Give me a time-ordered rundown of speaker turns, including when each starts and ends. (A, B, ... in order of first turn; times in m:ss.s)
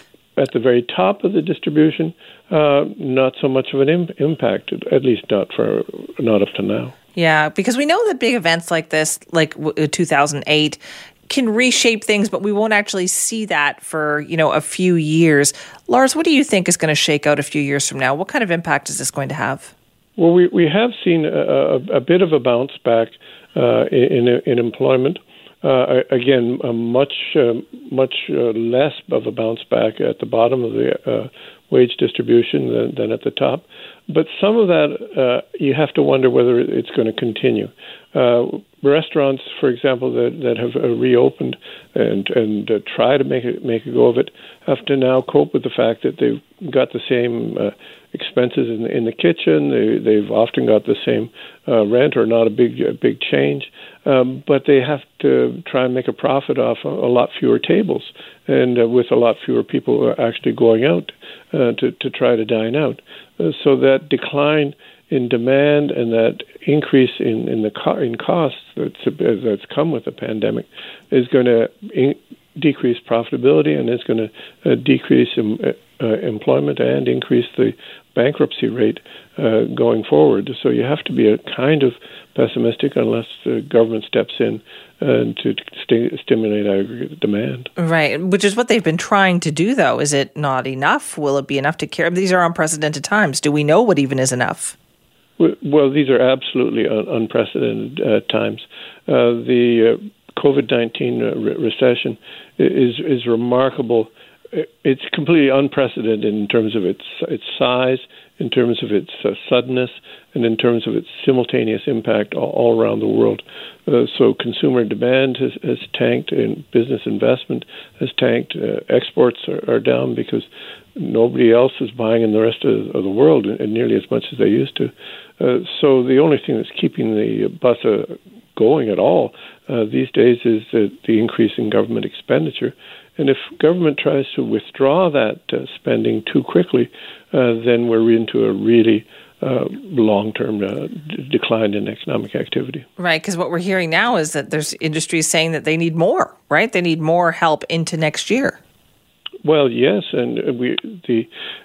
0:00.4-0:06.9 A
0:07.2-0:19.7 B
0:20.2-1:27.7 A
1:27.8-1:34.7 B
1:35.4-2:22.8 A
2:23.0-2:28.6 B
2:29.4-2:31.3 A